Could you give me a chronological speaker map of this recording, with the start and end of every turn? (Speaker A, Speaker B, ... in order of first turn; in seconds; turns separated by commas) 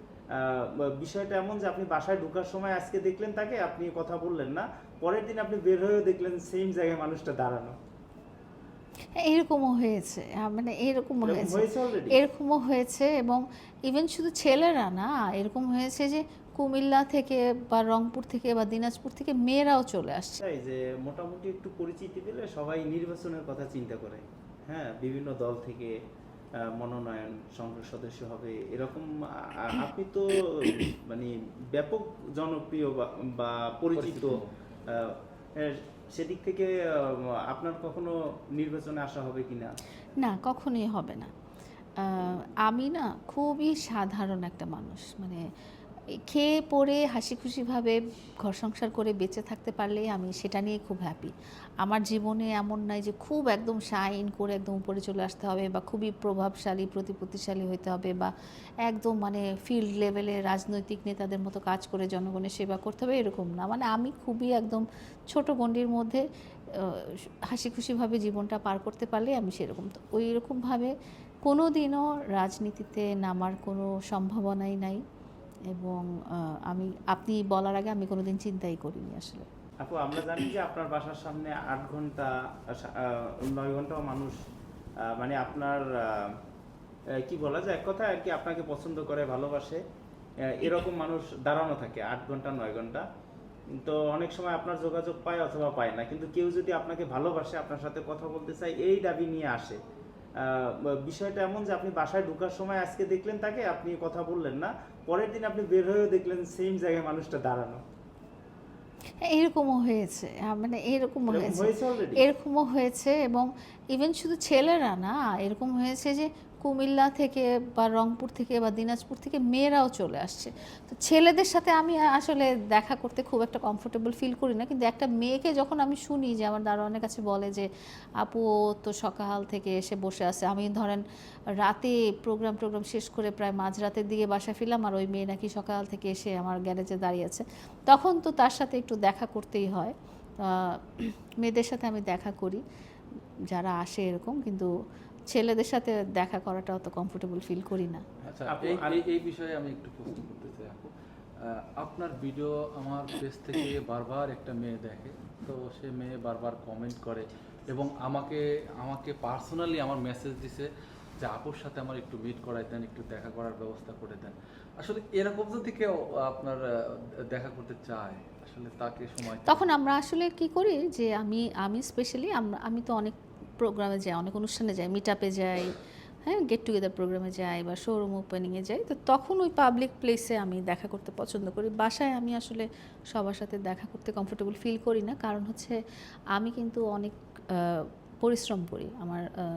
Speaker A: 0.3-7.8, Speaker B: 9.2-20.4, Speaker A: 11.2-12.2, Speaker A: 20.4-26.0, Speaker A: 26.6-39.8, Speaker C: 34.0-34.5, Speaker B: 40.2-41.3, Speaker B: 42.0-45.4, Speaker B: 46.1-58.3, Speaker B: 58.8-70.9, Speaker B: 71.5-75.0, Speaker B: 75.7-79.5, Speaker A: 79.8-84.4, Speaker A: 85.0-86.3, Speaker A: 87.2-89.8, Speaker A: 90.5-93.0, Speaker A: 93.8-99.8, Speaker A: 100.4-107.8, Speaker B: 109.2-127.7, Speaker A: 111.3-112.3, Speaker B: 128.2-131.0, Speaker B: 131.6-142.6, Speaker B: 143.5-144.7, Speaker B: 145.3-148.0, Speaker C: 148.3-150.9, Speaker A: 148.5-149.0, Speaker C: 151.4-160.7, Speaker C: 161.2-169.7, Speaker B: 169.4-185.8, Speaker B: 186.3-189.3